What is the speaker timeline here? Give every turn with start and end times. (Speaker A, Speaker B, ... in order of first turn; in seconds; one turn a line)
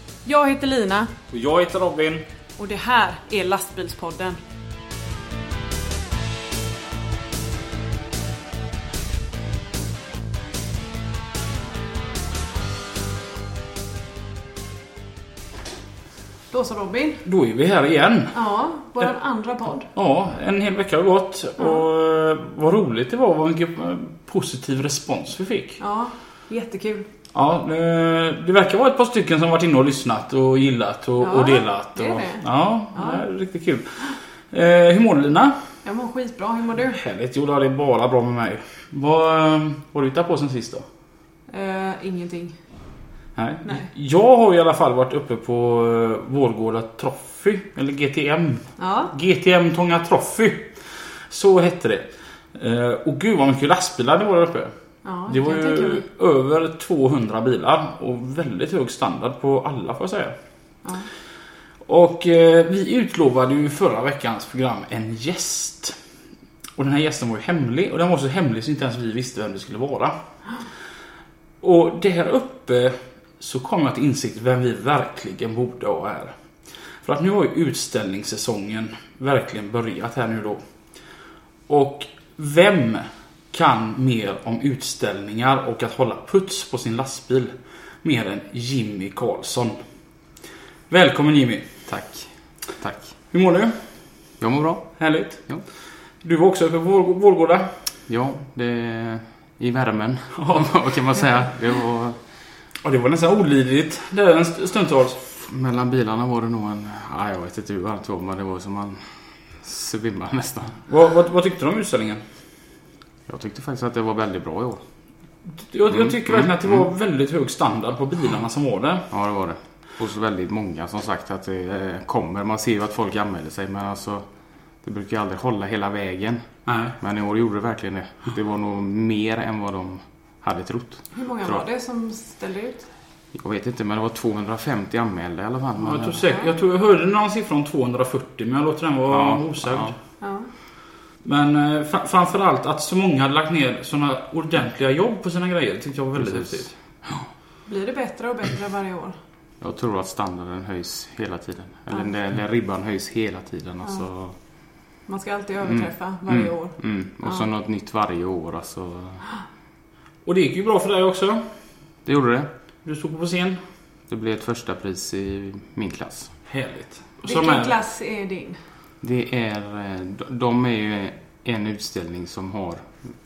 Speaker A: 0.2-1.1
Speaker B: 1.3-2.2
Speaker A: 2.6-4.4
Speaker A: 16.5-17.2
Speaker B: 17.2-18.4
Speaker A: 18.3-19.9
Speaker B: 19.9-25.8
Speaker A: 25.8-27.1
Speaker B: 27.3-35.6
Speaker A: 31.2-33.2
Speaker A: 35.8-37.0
Speaker B: 36.9-40.9
Speaker A: 41.5-42.5
Speaker B: 43.4-54.7
Speaker A: 48.8-49.1
Speaker A: 55.0-56.0
Speaker B: 55.3-60.3
Speaker B: 61.9-66.0
Speaker B: 66.8-70.1
Speaker B: 71.6-76.3
Speaker B: 77.0-80.6
Speaker B: 81.7-89.8
Speaker B: 90.9-91.7
Speaker C: 91.9-93.1
Speaker B: 93.3-93.8
Speaker C: 94.4-95.6
Speaker B: 95.0-95.5
Speaker B: 96.2-97.7
Speaker C: 98.1-102.2
Speaker B: 100.4-100.7
Speaker B: 102.8-105.2
Speaker C: 105.4-110.8
Speaker B: 110.9-112.2
Speaker C: 113.3-114.8
Speaker B: 115.6-119.1
Speaker C: 115.9-116.8
Speaker C: 119.1-124.2
Speaker C: 124.8-126.5
Speaker B: 126.7-127.0
Speaker C: 127.0-131.7
Speaker A: 131.1-132.8
Speaker C: 133.3-136.2
Speaker B: 135.8-139.9
Speaker C: 139.1-139.9
Speaker A: 140.2-140.5
Speaker B: 141.2-146.7
Speaker C: 146.2-147.2
Speaker A: 147.7-149.2
Speaker C: 149.6-154.4
Speaker A: 155.1-156.8
Speaker C: 155.6-159.2
Speaker B: 160.3-161.4
Speaker C: 162.1-162.5
Speaker B: 162.8-163.6
Speaker C: 164.1-166.3
Speaker B: 166.5-167.8
Speaker A: 167.2-168.6
Speaker C: 169.0-172.9